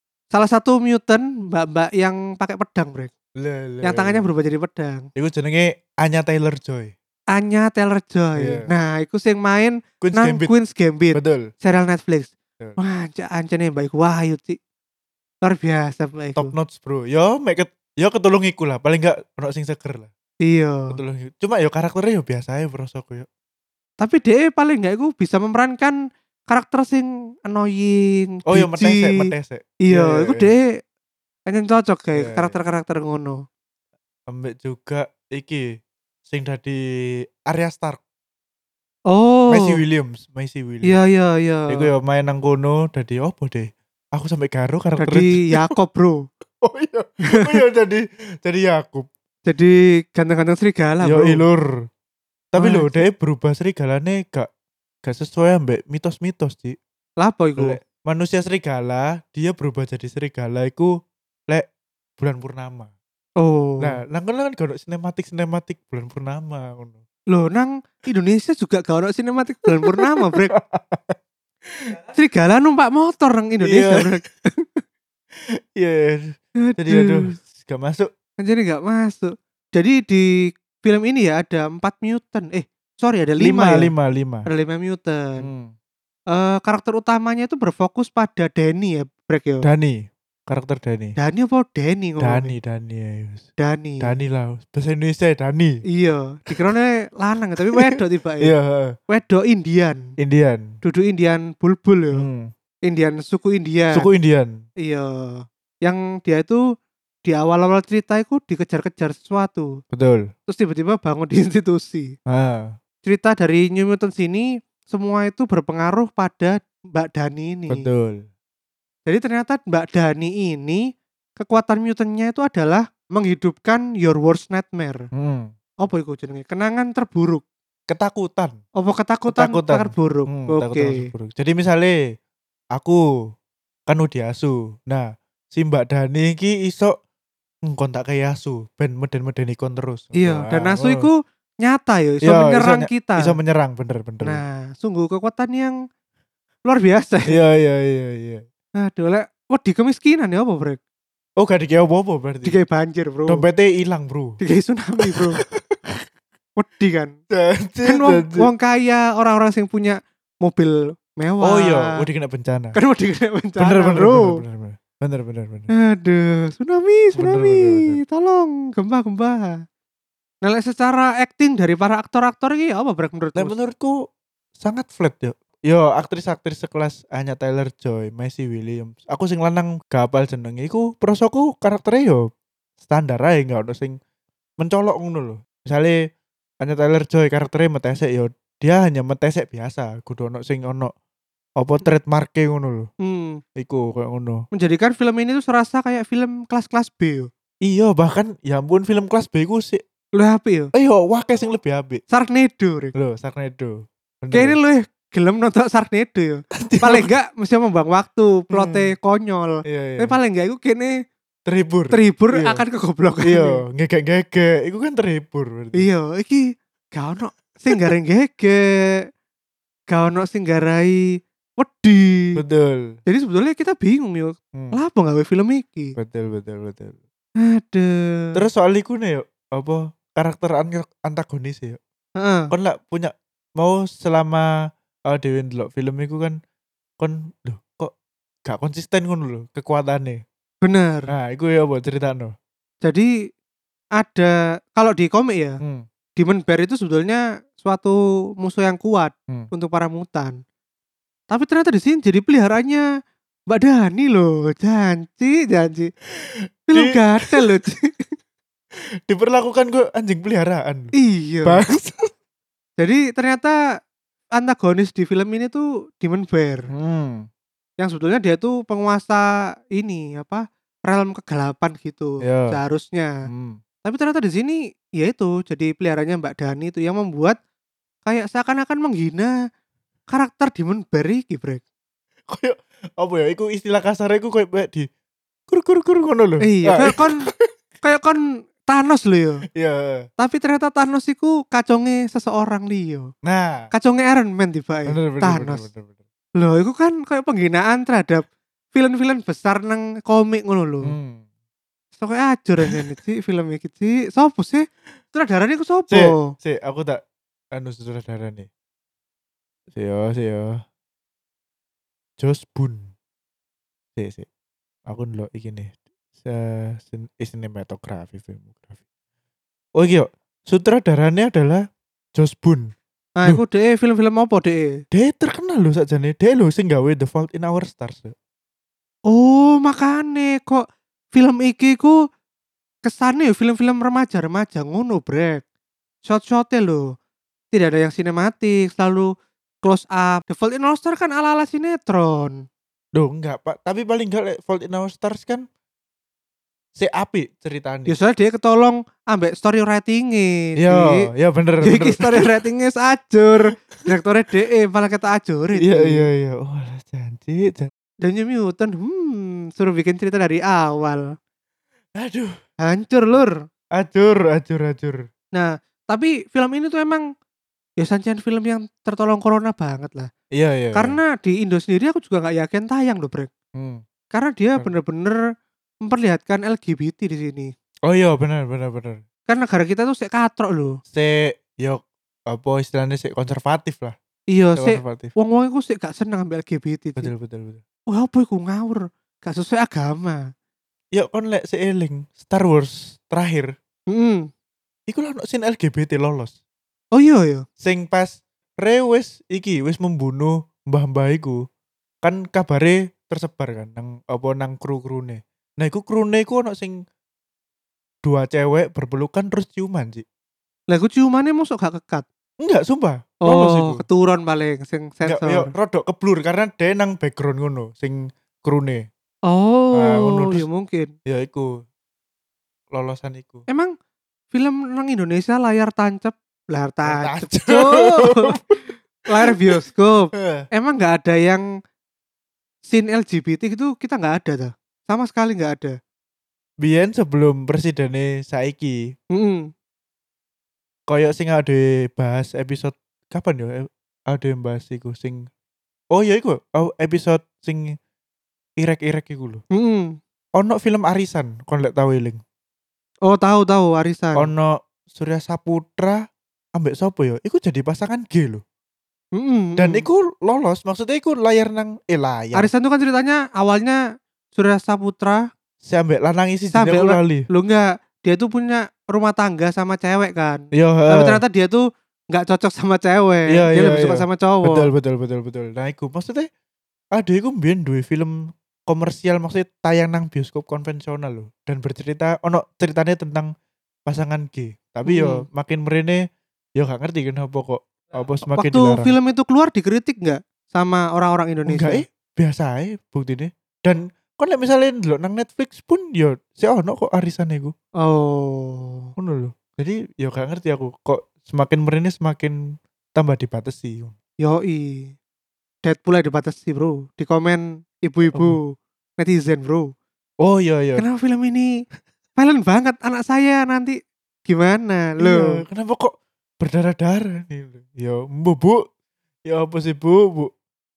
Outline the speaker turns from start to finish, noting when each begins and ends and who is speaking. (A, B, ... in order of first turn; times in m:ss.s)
0:00.3-0:03.1 A
0:03.4-0:04.2 B
0:03.8-0:05.1 A
0:05.2-0:06.9 B
0:07.3-0:14.6 A
0:08.4-0:08.7 B
0:10.0-0:10.5 B
0:11.1-0:11.5 B
0:15.4-0:16.5 A
0:16.4-0:20.1 B
0:20.4-0:21.0 A
0:20.9-0:23.3 B
0:24.0-0:26.0 A
0:26.5-0:29.3 A
0:28.5-0:30.5 B
0:29.9-0:30.6 A
0:31.5-0:33.4 A
0:32.1-0:32.5 B
0:34.3-0:35.6 B
0:36.3-0:36.8 B
0:37.4-0:38.0 B
0:39.1-0:39.8 A
0:39.5-0:40.9 B
0:40.8-0:41.9 A
0:41.7-0:45.6 B
0:45.0-0:46.2 A
0:46.6-0:49.1 B
0:47.3-0:47.6 A
0:49.4-0:51.4 A
0:51.0-0:51.7 B
0:52.5-0:54.5 B
0:52.6-0:53.0 A
0:55.0-0:56.8 B
0:57.2-0:57.8 A
0:57.6-1:00.9 B
1:02.2-1:02.9 B
1:03.4-1:04.0 A
1:03.8-1:07.0 B
1:07.3-1:10.5 A
1:10.0-1:11.9 B
1:12.1-1:14.8 A
1:13.6-1:14.1 B
1:15.4-1:18.1 B
1:16.6-1:17.3 A
1:18.4-1:20.3 A
1:20.8-1:23.9 A
1:23.4-1:24.5 B
1:24.4-1:25.5 A
1:25.4-1:25.7 B
1:26.3-1:29.6 A
1:29.6-1:31.2 B
1:31.2-1:32.5 A
1:32.2-1:33.4 B
1:33.6-1:34.1 A
1:34.0-1:35.8 B
1:35.9-1:38.5 A
1:37.6-1:39.0 B
1:39.1-1:40.0 A
1:40.2-1:40.7 B
1:40.8-1:42.2 A
1:42.1-1:42.5 B
1:42.8-1:44.1 A
1:43.9-1:44.6 B
1:44.8-1:46.6 A
1:47.2-1:49.7 A
1:49.9-1:50.3 B
1:50.5-1:52.1 A
1:52.3-1:52.7 B
1:53.0-1:57.8 A
1:57.7-1:58.2 B
1:59.0-2:00.8 A
2:01.4-2:05.0 A
2:05.1-2:05.5 B
2:05.8-2:07.4 A
2:07.9-2:08.6 B
2:08.8-2:11.1 A
2:09.3-2:12.0 B
2:13.9-2:16.9 B
2:17.6-2:21.1 B
2:20.2-2:23.4 A
2:22.2-2:24.4 B
2:24.2-2:25.7 A
2:26.6-2:27.4 A
2:27.3-2:28.4 B
2:28.8-2:30.8 A
2:31.4-2:32.6 B
2:32.4-2:33.4 A
2:33.3-2:34.4 B
2:34.4-2:35.4 A
2:35.0-2:36.0 B
2:36.6-2:37.1 A
2:37.3-2:38.5 B
2:37.8-2:42.0 A
2:41.4-2:42.8 B
2:42.7-2:44.4 A
2:43.6-2:45.7 B
2:45.7-2:49.6 A
2:47.2-2:48.0 B
2:50.4-2:53.5 A
2:53.4-2:54.0 B
2:54.6-3:02.2 B
3:02.8-3:04.0 B
3:04.6-3:06.0 B
3:06.6-3:10.9 B
3:11.6-3:12.9 B
3:13.0-3:13.4 A
3:13.6-3:14.4 B
3:14.5-3:17.3 A
3:17.6-3:19.8 B
3:20.2-3:20.7 A
3:20.7-3:22.0 B
3:22.1-3:22.9 A
3:22.9-3:24.6 B
3:24.3-3:30.9 A
3:26.5-3:27.1 B
3:28.5-3:28.9 B
3:29.6-3:30.2 B
3:31.4-3:32.6 B
3:31.9-3:33.6 A
3:33.2-3:35.8 B
3:35.7-3:39.0 A
3:39.9-3:42.4 A
3:42.4-3:42.9 B
3:43.0-3:45.9 A
3:46.0-3:47.0 B
3:47.4-3:48.4 A
3:48.3-3:51.8 B
3:52.2-3:52.5 A
3:52.5-3:54.5 B
3:55.1-3:56.4 B
3:57.0-3:57.9 B
3:58.4-4:00.2 B
4:00.6-4:01.1 A
4:01.1-4:02.3 B
4:02.8-4:03.1 A
4:04.0-4:05.6 A
4:06.2-4:10.4 A
4:11.3-4:12.8 A
4:13.5-4:15.9 A
4:16.2-4:17.4 B
4:16.7-4:18.1 A
4:19.1-4:20.9 B
4:20.9-4:21.6 A
4:21.4-4:22.1 B
4:22.8-4:23.6 A
4:24.4-4:26.7 A
4:26.7-4:27.3 B
4:27.8-4:33.1 A
4:32.2-4:32.6 B
4:33.3-4:33.6 B
4:33.8-4:37.4 A
4:38.0-4:39.3 A
4:40.1-4:41.6 A
4:42.3-4:44.9 B
4:45.5-4:47.5 B
4:46.4-4:47.3 A
4:47.8-4:49.4 A
4:49.5-4:50.0 B
4:50.2-4:53.1 A
4:53.2-4:53.7 B
4:53.7-4:55.6 A
4:54.9-4:56.0 B
4:56.4-5:00.9 A
5:00.8-5:01.2 B
5:02.0-5:06.3 A
5:05.9-5:07.0 B
5:07.5-5:08.5 B
5:09.7-5:10.6 B
5:12.2-5:12.9 B
5:14.0-5:14.3 B
5:14.9-5:18.8 B
5:19.8-5:21.6 B
5:22.2-5:22.7 B
5:23.2-5:24.7 A
5:24.9-5:28.1 B
5:29.1-5:32.0 A
5:32.8-5:35.4 A
5:36.0-5:36.9 A
5:37.5-5:39.1 A
5:39.6-5:42.4 A
5:42.9-5:45.4 B
5:46.8-5:47.9 B
5:47.9-5:51.1 A
5:50.6-5:52.3 B
5:51.6-5:56.1 A
5:55.6-5:57.7 B
5:58.0-6:01.1 A
6:02.0-6:02.3 B
6:02.6-6:03.3 A
6:03.8-6:05.0 B
6:05.3-6:07.0 A
6:07.8-6:10.1 A
6:10.3-6:11.0 B
6:10.7-6:13.3 A
6:13.5-6:13.8 B
6:14.1-6:15.2 A
6:15.8-6:17.5 A
6:17.9-6:19.0 B
6:19.3-6:20.8 A
6:20.9-6:24.0 B
6:24.3-6:27.1 A
6:24.6-6:25.1 B
6:27.0-6:27.6 B
6:27.9-6:30.2 A
6:30.9-6:33.5 B
6:33.9-6:34.3 A
6:34.9-6:36.4 B
6:36.9-6:37.4 A
6:37.6-6:41.4 B
6:42.0-6:46.8 B
6:48.0-6:50.0 B
6:50.7-6:52.0 A
6:52.4-6:53.8 B
6:53.2-6:55.5 A
6:55.0-6:58.8 B
6:59.3-7:00.9 A
6:59.8-7:00.4 B
7:01.0-7:01.5 B
7:02.7-7:03.4 B
7:04.3-7:08.4 A
7:06.8-7:08.6 B
7:09.1-7:11.4 A
7:10.1-7:10.4 B
7:12.6-7:15.8 A
7:16.6-7:18.8 B
7:19.1-7:19.5 A
7:20.9-7:25.3 B
7:25.9-7:27.8 B
7:28.6-7:29.4 B
7:29.5-7:30.0 A
7:30.4-7:32.2 B
7:33.1-7:34.3 A
7:34.2-7:36.0 B
7:36.6-7:38.4 B
7:39.2-7:39.8 A
7:39.6-7:42.5 B
7:42.3-7:43.8 A
7:44.3-7:45.2 A
7:45.6-7:47.3 B
7:46.5-7:54.7 A
7:50.5-7:51.2 B
7:53.3-7:56.3 B
7:56.9-8:03.3 B
8:03.9-8:06.0 B
8:04.8-8:05.2 A
8:06.6-8:08.9 B
8:08.3-8:11.8 A
8:11.5-8:17.5 B
8:17.8-8:18.9 A
8:19.0-8:22.4 B
8:23.0-8:23.9 B
8:24.2-8:25.0 A
8:25.6-8:29.7 A
8:30.2-8:30.8 B
8:30.8-8:31.5 A
8:32.2-8:35.4 A
8:35.0-8:38.6 B
8:39.2-8:40.3 B